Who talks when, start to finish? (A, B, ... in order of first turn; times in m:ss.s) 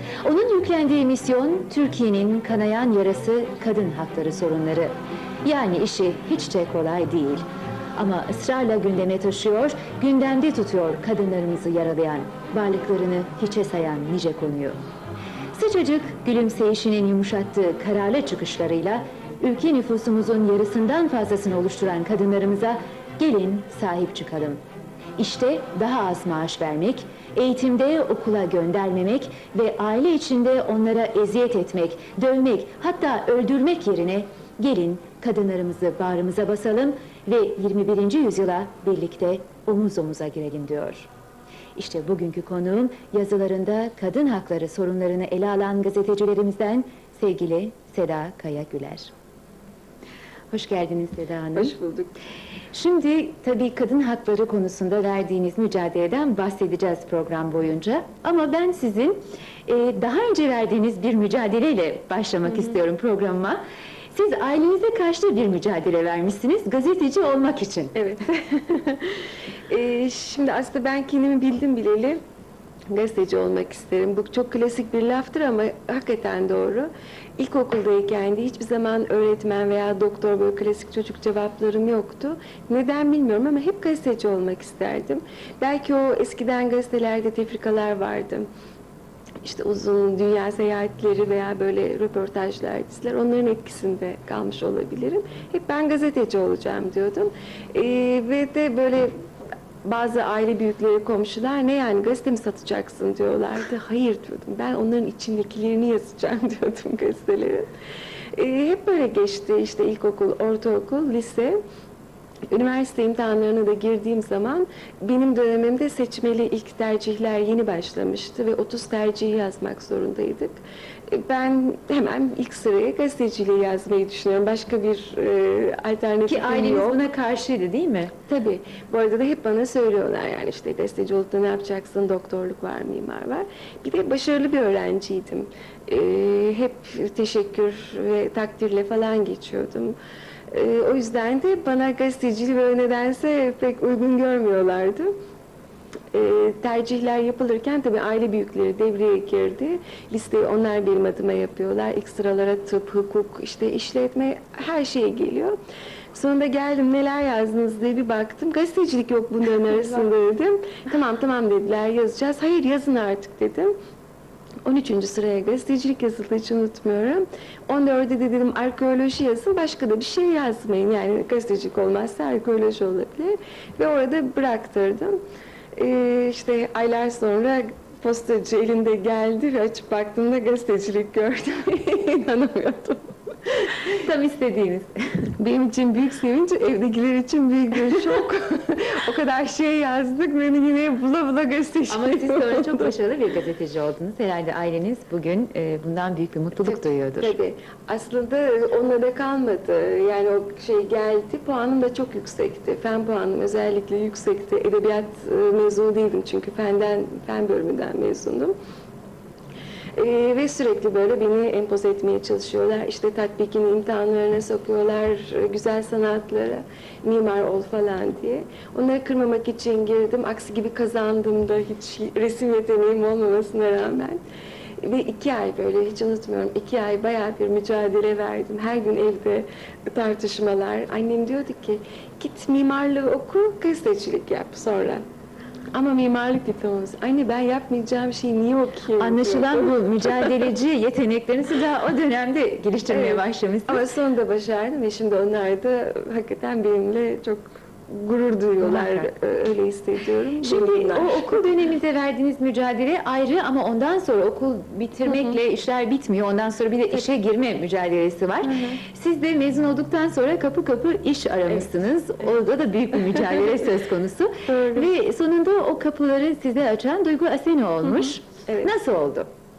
0:00.2-0:04.9 A
0:05.4-0:07.4 A
0:08.0-0:14.8 A
0:15.5-0:24.6 A
0:25.2-0:41.1 A
0:41.8-0:49.1 A
0:50.5-0:51.7 A
0:51.5-0:52.1 B
0:52.7-1:03.6 A
1:04.1-1:08.0 A
1:07.9-1:12.2 B
1:12.9-1:28.5 B
1:29.4-1:39.1 B
1:39.8-1:47.7 B
1:48.4-1:51.6 B
1:52.5-2:07.0 B
2:06.3-2:08.1 A
2:08.3-2:20.0 B
2:20.5-2:25.1 B
2:26.1-2:35.6 B
2:36.1-2:43.7 B
2:44.6-2:55.2 B
2:55.8-3:03.7 B
3:03.9-3:05.3 A
3:05.4-3:12.9 B
3:11.9-3:17.3 A
3:16.6-3:28.5 B
3:30.0-3:44.2 B
3:44.8-3:55.0 B
3:55.7-4:00.5 B
3:59.0-4:03.9 A
4:02.9-4:11.5 B
4:08.6-4:09.1 A
4:10.4-4:29.3 A
4:15.1-4:15.4 B
4:18.4-4:18.8 B
4:24.5-4:24.9 B
4:27.9-4:28.7 B